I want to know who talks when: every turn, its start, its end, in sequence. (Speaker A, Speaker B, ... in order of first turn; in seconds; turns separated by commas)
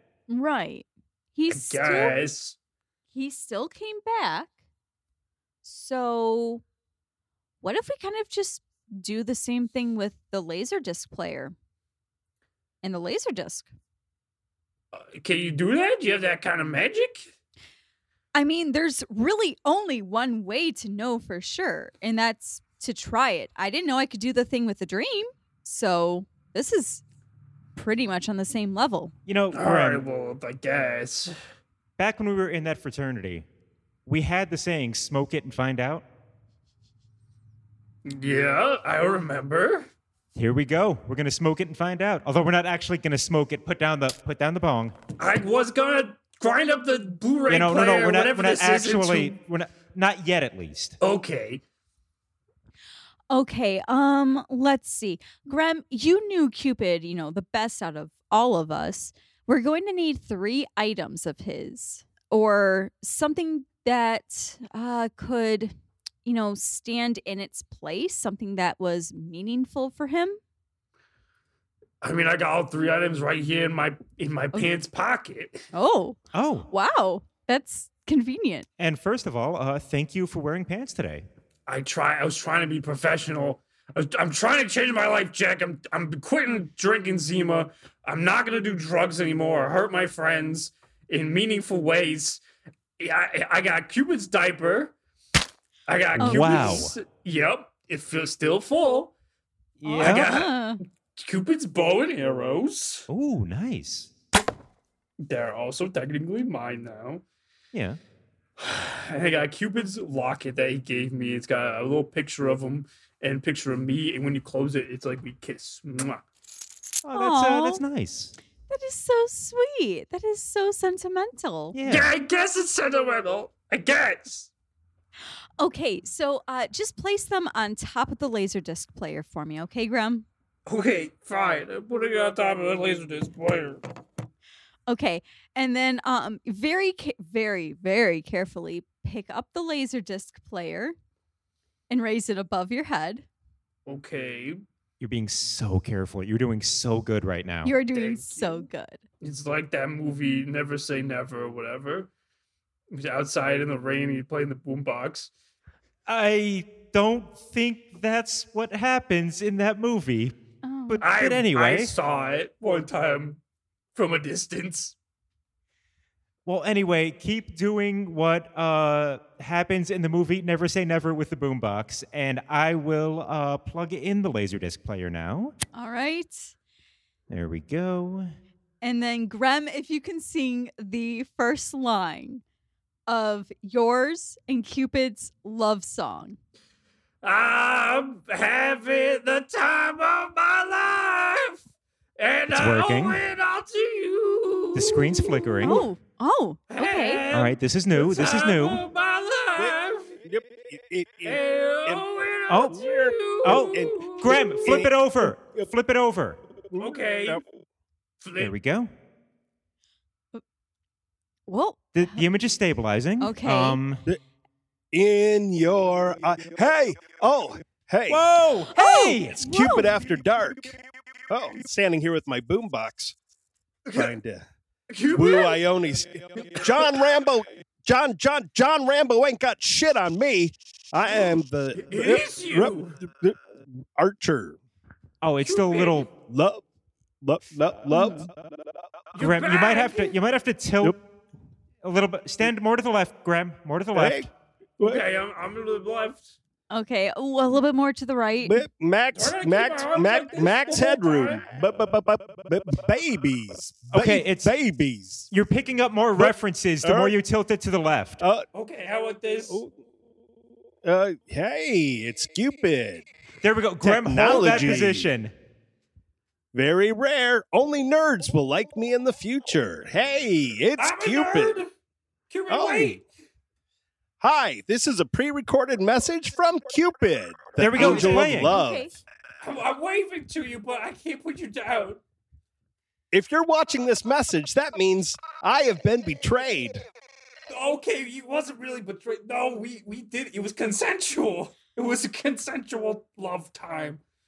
Speaker A: 0.3-2.2, Speaker B: 1.5-2.6, Speaker A: 3.1-4.5, Speaker A: 5.6-6.6, Speaker A: 7.6-11.6, Speaker A: 12.8-13.7, Speaker B: 14.9-17.3, Speaker A: 18.3-27.0, Speaker A: 27.8-29.1, Speaker C: 29.3-30.1, Speaker B: 29.5-31.3, Speaker C: 32.0-33.5, Speaker C: 34.1-36.0, Speaker B: 38.0-39.9, Speaker C: 40.4-45.0, Speaker B: 45.2-49.4, Speaker C: 47.5-51.0, Speaker B: 51.0-51.6, Speaker A: 53.3-65.7, Speaker A: 66.2-70.4, Speaker B: 72.0-75.7, Speaker A: 75.7-76.2, Speaker C: 76.3-76.7, Speaker A: 76.7-78.7, Speaker C: 78.8-81.3, Speaker B: 81.7-92.4, Speaker B: 93.0-94.9, Speaker B: 95.9-99.1, Speaker C: 96.2-97.0, Speaker A: 96.2-96.9, Speaker C: 99.8-100.3, Speaker A: 99.8-100.8, Speaker B: 100.0-100.6, Speaker B: 101.2-103.1, Speaker C: 103.1-104.1, Speaker B: 105.2-107.2, Speaker C: 107.7-108.0, Speaker B: 108.6-116.2, Speaker C: 117.0-118.3, Speaker A: 117.1-117.8, Speaker A: 118.7-121.8, Speaker C: 121.7-122.1, Speaker B: 121.9-124.5, Speaker A: 125.6-130.3, Speaker B: 130.7-133.8, Speaker A: 134.9-141.0, Speaker A: 141.9-143.3, Speaker B: 143.9-144.6, Speaker C: 145.0-147.8, Speaker A: 147.7-149.0, Speaker B: 147.9-148.7, Speaker B: 149.2-152.1, Speaker B: 152.9-155.3, Speaker C: 156.1-160.3, Speaker A: 160.6-161.0, Speaker C: 160.9-161.9, Speaker B: 161.0-163.4, Speaker B: 163.9-165.0, Speaker C: 166.4-175.6, Speaker A: 175.7-176.6, Speaker C: 177.3-178.3, Speaker A: 178.8-182.4, Speaker A: 183.1-186.4, Speaker B: 187.2-191.6, Speaker B: 192.2-195.8, Speaker C: 192.5-193.2, Speaker C: 194.8-195.9, Speaker A: 195.6-197.2, Speaker B: 196.7-200.1, Speaker C: 197.3-198.8, Speaker D: 199.6-202.0, Speaker B: 201.2-204.8, Speaker C: 202.5-202.8, Speaker D: 202.7-205.7, Speaker C: 203.4-206.4, Speaker D: 206.7-207.4, Speaker B: 206.8-207.4, Speaker B: 208.2-208.5, Speaker C: 208.4-208.9, Speaker A: 211.5-212.3, Speaker C: 211.9-214.0, Speaker A: 213.2-213.8, Speaker D: 214.9-218.2, Speaker C: 218.1-219.4, Speaker A: 218.7-219.9, Speaker D: 219.3-220.8, Speaker D: 221.3-223.2, Speaker B: 223.9-224.1, Speaker D: 223.9-224.4, Speaker B: 224.9-225.6, Speaker D: 225.1-234.6, Speaker B: 226.4-227.0, Speaker B: 231.8-233.0, Speaker C: 235.2-236.1, Speaker B: 235.4-236.1, Speaker D: 236.2-236.7, Speaker D: 237.2-238.4, Speaker A: 237.9-238.2, Speaker B: 239.2-240.1, Speaker C: 239.2-241.0, Speaker C: 241.8-244.3, Speaker D: 243.9-244.3, Speaker B: 244.8-246.4, Speaker A: 246.7-248.7, Speaker D: 248.4-255.3, Speaker B: 249.1-251.4, Speaker C: 253.9-254.5, Speaker C: 255.3-258.2, Speaker D: 256.2-257.2, Speaker D: 258.2-258.5, Speaker B: 258.5-259.6, Speaker D: 260.8-263.1, Speaker C: 263.4-265.3, Speaker D: 263.8-265.1, Speaker D: 266.5-271.6, Speaker B: 270.8-271.7, Speaker B: 272.3-273.1, Speaker D: 272.5-273.0, Speaker D: 274.2-278.9, Speaker C: 277.6-278.5, Speaker A: 277.8-279.0, Speaker B: 277.8-278.1, Speaker B: 279.4-282.0, Speaker D: 283.1-286.8, Speaker B: 287.5-294.0